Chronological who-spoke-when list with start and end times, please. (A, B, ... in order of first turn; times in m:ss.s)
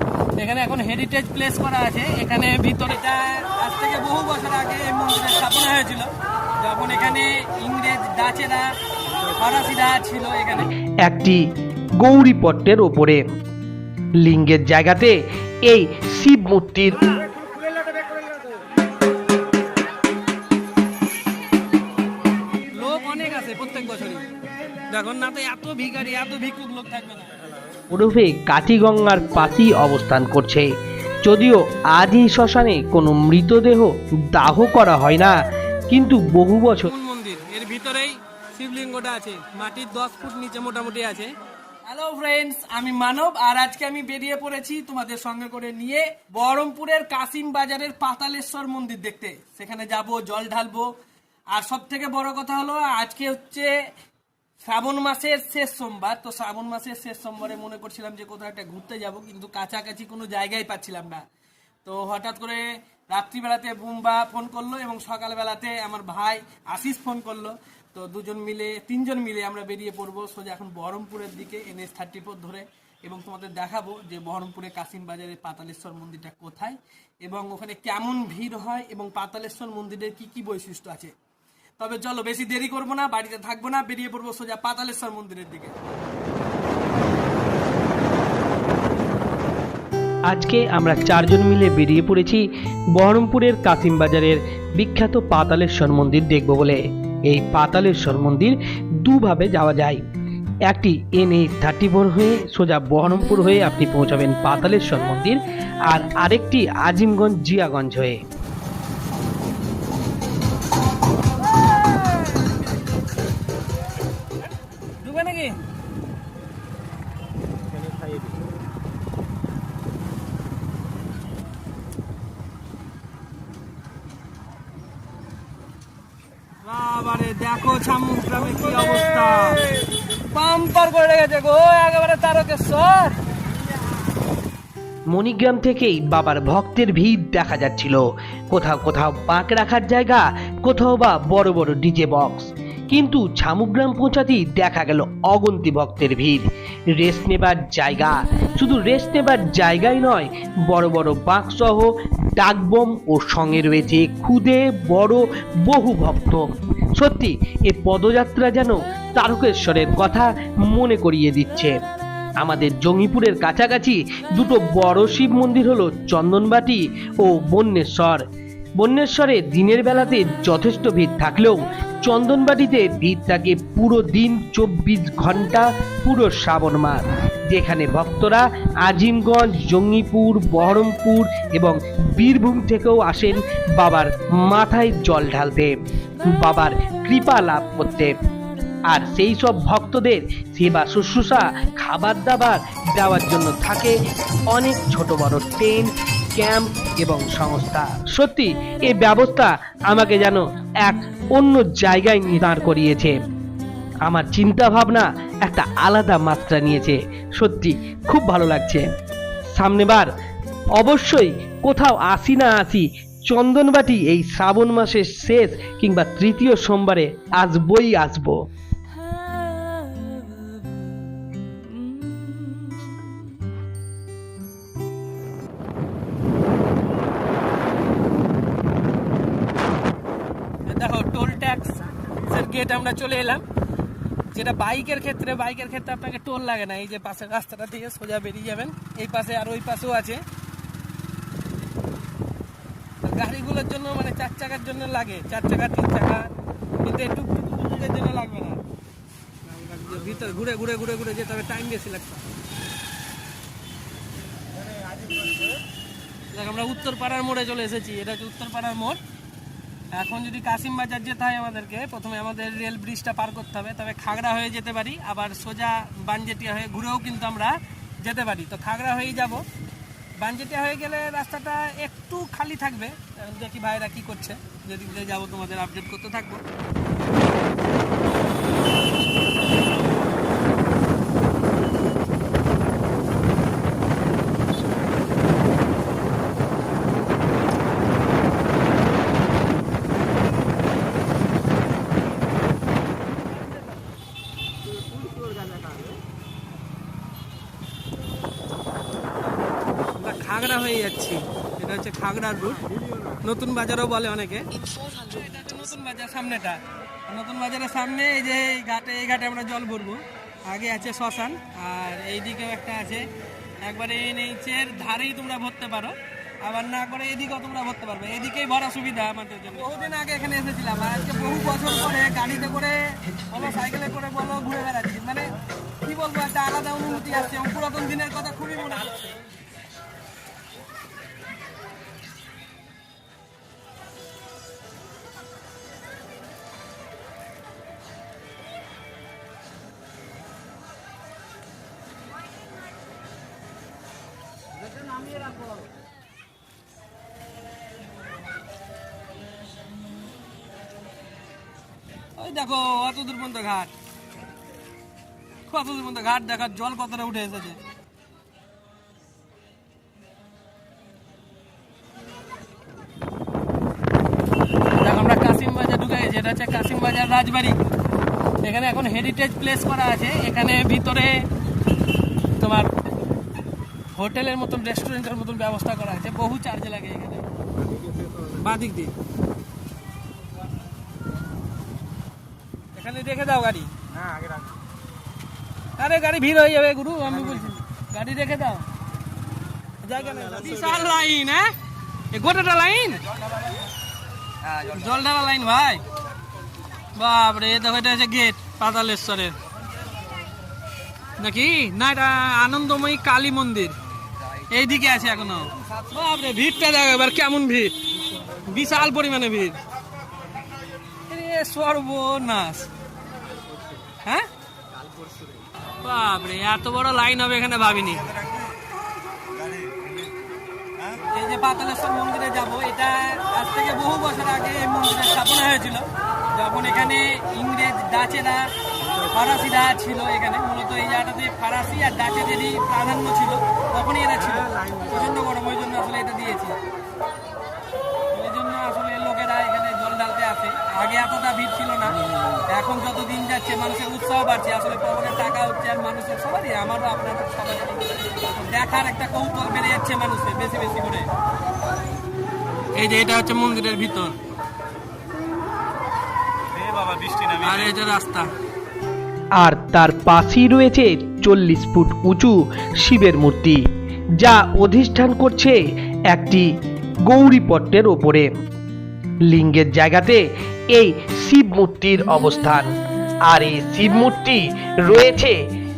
0:00.3-0:08.7 A
0:09.3-0:10.7 A
0:11.0-0:11.4 B
0:12.0-0:13.2 B
0:14.2-0:17.0 B
0:22.7-0:24.2 A
0:24.9-0:27.4 A
0:27.9-0:30.7 B
0:31.2-0:35.4 B
0:35.9-0:36.9 B
0:36.8-0:41.3 A
0:41.8-0:50.9 A
0:51.5-0:53.8 A
0:54.6-1:01.2 A
1:01.8-1:21.1 A
1:21.8-1:25.7 A
1:30.3-1:40.0 B
1:40.7-1:48.2 B
1:55.0-1:55.6 A
2:06.6-2:13.2 A
2:15.1-2:36.4 B
2:37.0-2:41.8 B
2:42.4-2:48.2 B
2:48.8-3:08.1 B
3:08.9-3:14.0 B
3:14.5-3:23.2 B
3:24.0-3:28.8 B
3:29.5-3:30.1 B
3:30.8-3:38.4 B
3:50.6-3:53.4 A
3:54.3-4:00.2 A
4:03.0-4:08.6 A
4:09.4-4:12.2 A
4:16.3-4:19.0 A
4:19.9-4:29.4 A
4:30.2-4:36.4 A
4:55.5-4:55.8 C
5:00.0-5:13.1 A
5:13.6-5:29.2 A
5:52.2-5:53.7 A
5:55.5-5:57.6 A
6:04.8-6:07.6 A
6:08.4-6:11.3 A
6:12.4-6:12.7 A
6:13.9-6:17.3 A
6:17.8-6:18.1 C
6:18.2-6:18.9 A
6:22.7-6:23.7 A
6:24.0-6:24.5 C
6:25.8-6:28.7 A
6:29.8-6:31.5 A
6:32.1-6:33.0 A
6:34.5-6:35.8 A
6:36.9-6:39.4 A
6:41.2-6:43.8 A
6:44.4-6:49.6 A
6:51.1-6:52.7 A
6:54.0-6:54.3 A
6:55.8-6:58.2 A
6:59.4-7:00.1 C
7:00.9-7:16.6 A
7:18.1-7:31.1 A
7:32.7-7:34.1 A
7:36.5-7:37.4 C
7:37.3-7:38.3 A
7:39.4-7:43.6 B
7:44.2-7:46.5 B
7:47.0-7:48.3 B
7:49.2-7:52.7 B
7:53.3-7:55.4 B